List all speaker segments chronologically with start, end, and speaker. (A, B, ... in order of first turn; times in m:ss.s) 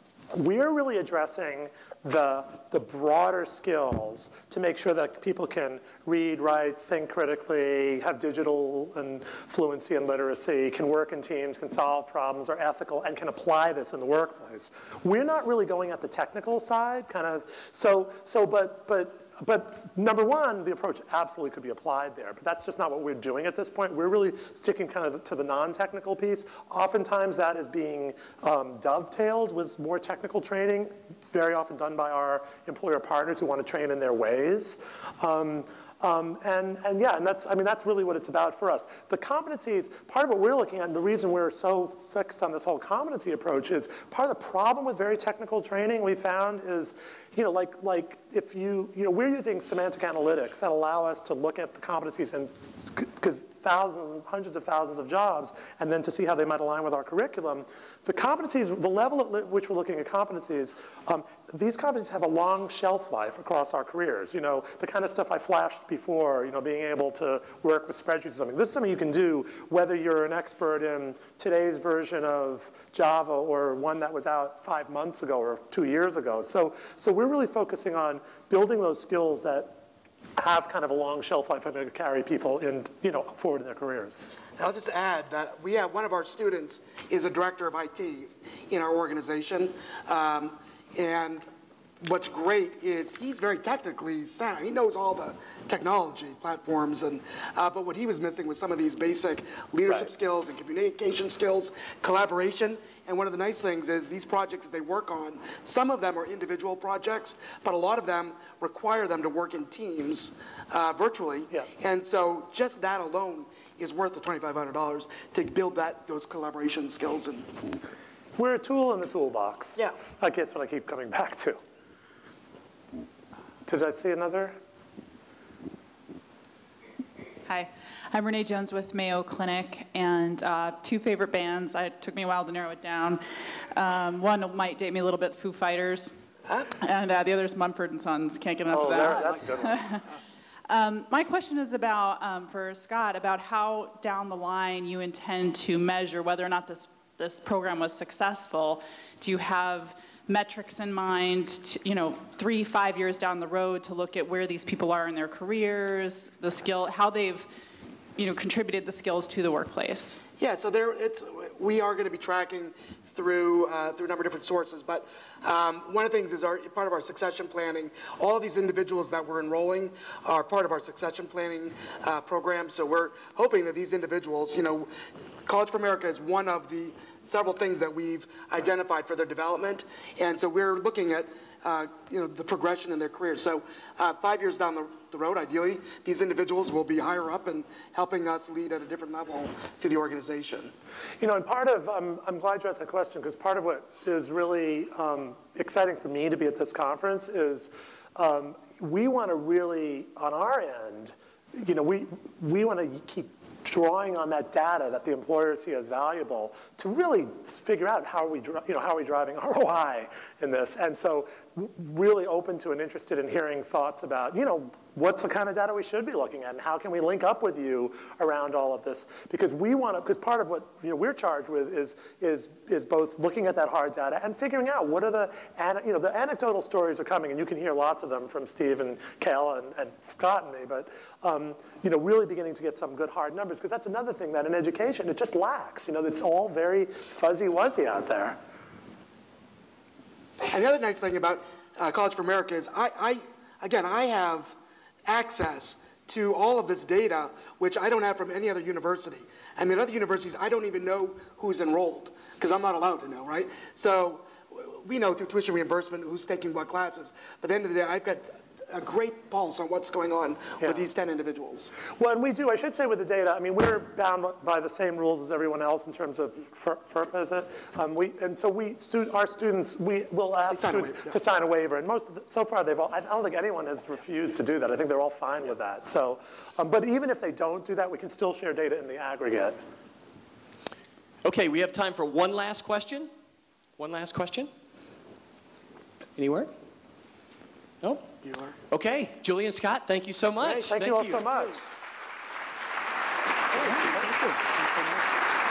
0:00.3-1:19.8 A
1:20.4-1:24.3 A
1:24.6-1:31.5 B
1:32.0-1:57.5 B
1:58.4-2:01.6 A
2:03.7-2:04.6 A
2:07.5-2:16.1 C
2:16.7-2:20.0 C
2:18.7-2:19.9 A
2:18.9-2:19.5 B
2:20.7-2:37.5 C
2:38.2-2:40.2 C
2:40.4-2:54.9 B
2:55.4-3:10.7 B
3:11.2-3:58.4 A
4:00.4-4:04.6 B
4:05.1-4:21.7 B
4:20.6-4:20.9 A
4:21.9-4:39.6 A
4:30.5-4:31.2 B
4:41.2-4:43.1 D
4:43.8-4:44.5 D
4:46.2-4:46.5 D
4:47.8-4:48.1 D
4:48.2-4:48.5 B
4:48.7-4:51.2 D
4:50.5-4:51.7 A
4:53.6-4:55.1 D
4:53.9-4:54.1 A